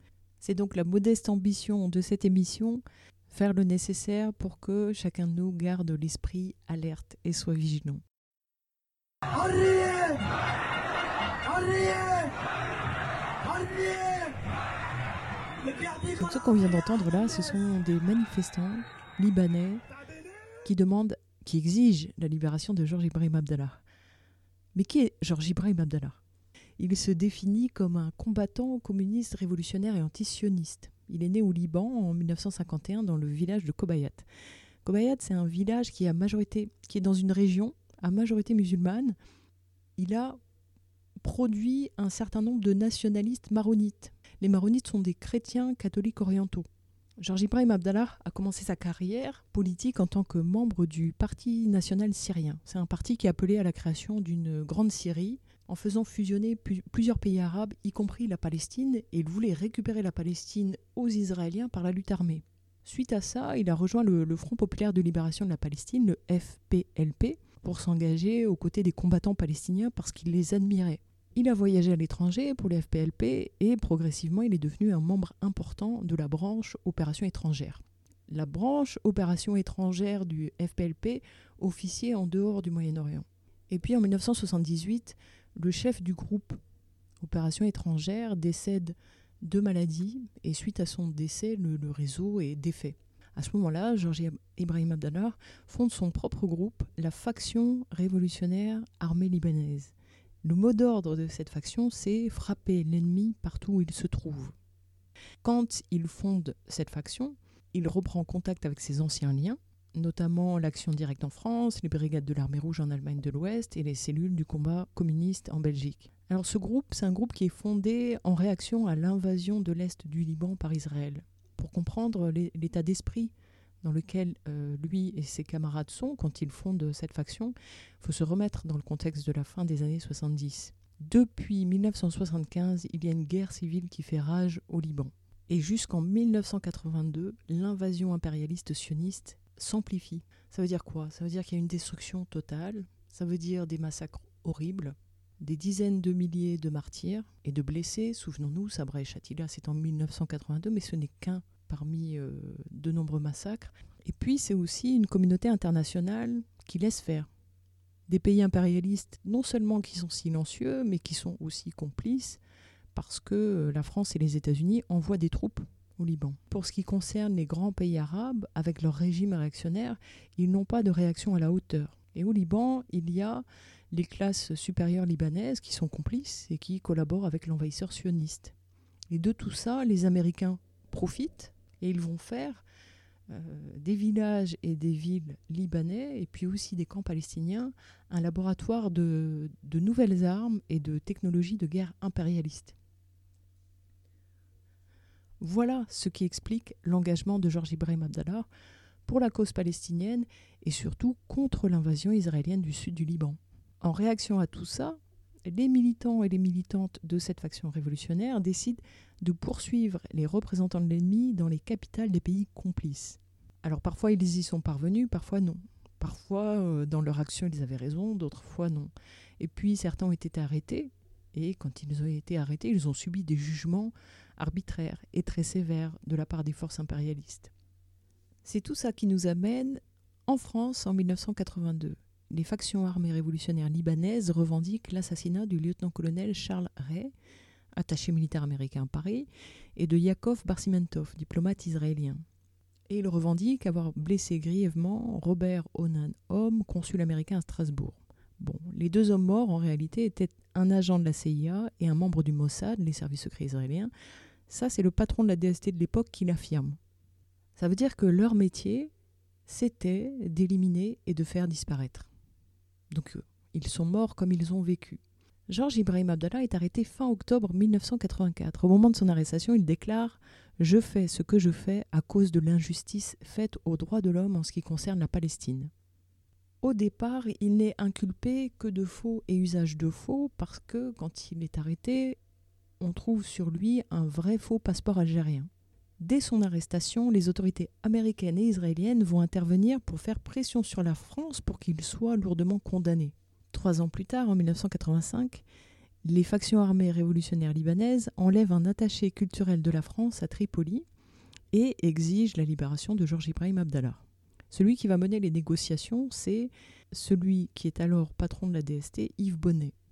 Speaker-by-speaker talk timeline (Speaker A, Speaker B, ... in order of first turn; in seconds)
Speaker A: 0.4-8.0, 9.4-10.2, 11.5-12.3, 13.7-14.3, 15.8-19.8, 20.6-23.8, 24.7-26.2, 26.8-34.3, 34.9-39.2, 40.0-40.4, 41.2-46.7, 47.2-86.6, 87.2-104.5, 105.4-157.3, 158.1-162.4, 162.9-178.5, 179.1-182.6, 183.3-192.8, 195.4-198.5, 199.1-227.5, 228.4-237.1, 237.8-242.2, 242.9-253.9, 254.5-256.8, 257.6-258.9, 259.5-262.1, 262.9-275.7, 276.6-282.2, 282.8-295.4, 296.0-300.9, 301.5-309.7